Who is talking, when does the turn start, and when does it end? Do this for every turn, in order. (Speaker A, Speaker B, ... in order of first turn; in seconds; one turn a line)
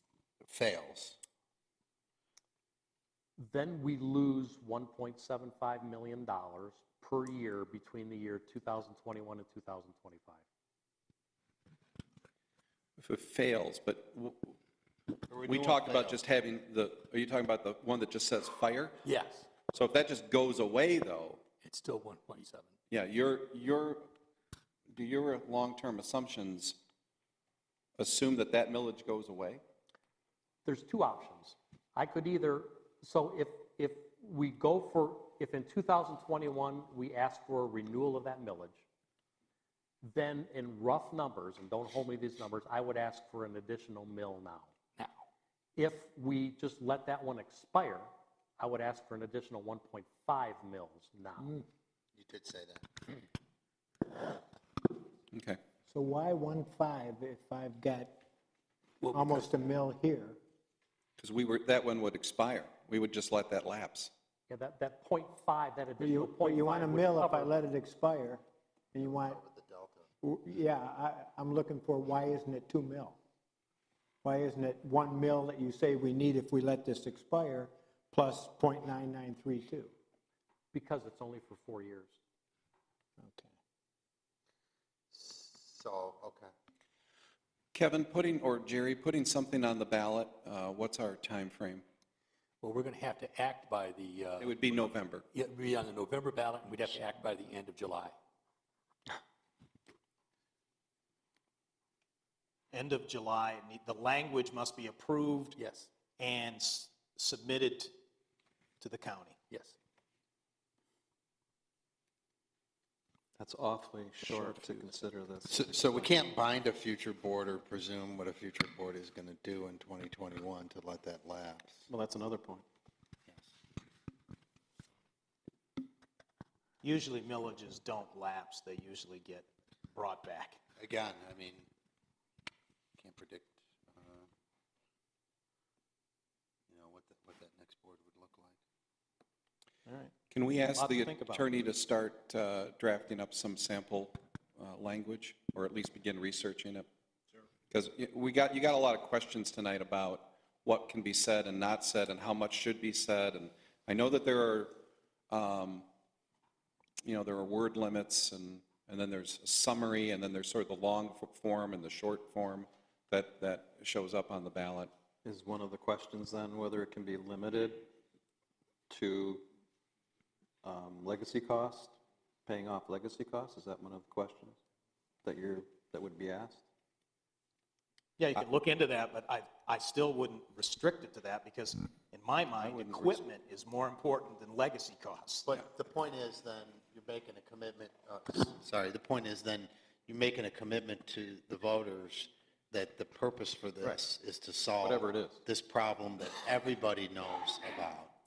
Speaker A: 0.5-1.2
Speaker B: 3.4-10.4
Speaker C: 13.0-14.5
Speaker A: 15.3-16.2
Speaker C: 15.4-19.0
Speaker D: 19.0-19.5
Speaker C: 19.7-21.4
Speaker D: 21.6-22.7
Speaker C: 22.9-24.1
Speaker C: 24.9-26.8
Speaker C: 28.0-29.6
Speaker B: 30.6-38.8
Speaker B: 40.0-44.7
Speaker D: 45.0-45.2
Speaker B: 45.8-51.5
Speaker A: 52.1-53.0
Speaker C: 55.3-55.6
Speaker E: 55.9-58.1
Speaker D: 59.0-59.5
Speaker E: 59.1-60.4
Speaker C: 61.2-64.1
Speaker B: 64.5-67.5
Speaker E: 66.0-68.4
Speaker E: 68.9-69.4
Speaker A: 69.0-70.1
Speaker E: 70.2-73.2
Speaker E: 74.2-79.9
Speaker B: 80.7-82.2
Speaker E: 83.2-83.5
Speaker A: 85.1-86.5
Speaker C: 87.7-91.8
Speaker D: 92.6-94.7
Speaker C: 94.4-95.2
Speaker D: 95.3-98.2
Speaker F: 102.7-105.6
Speaker D: 105.6-105.9
Speaker F: 106.2-107.9
Speaker F: 108.8-109.4
Speaker D: 109.5-109.7
Speaker G: 113.4-116.0
Speaker D: 114.2-115.0
Speaker A: 115.5-121.9
Speaker G: 121.9-122.6
Speaker F: 126.8-130.6
Speaker A: 130.8-131.7
Speaker A: 133.0-134.3
Speaker A: 136.7-138.6
Speaker F: 139.8-140.1
Speaker C: 140.3-146.8
Speaker F: 140.7-141.4
Speaker C: 147.7-155.9
Speaker C: 157.0-164.9
Speaker G: 165.2-167.9
Speaker G: 168.9-169.4
Speaker G: 170.6-174.6
Speaker G: 175.2-176.6
Speaker F: 178.2-185.5
Speaker C: 182.5-183.2
Speaker A: 185.5-198.1
Speaker G: 194.8-195.4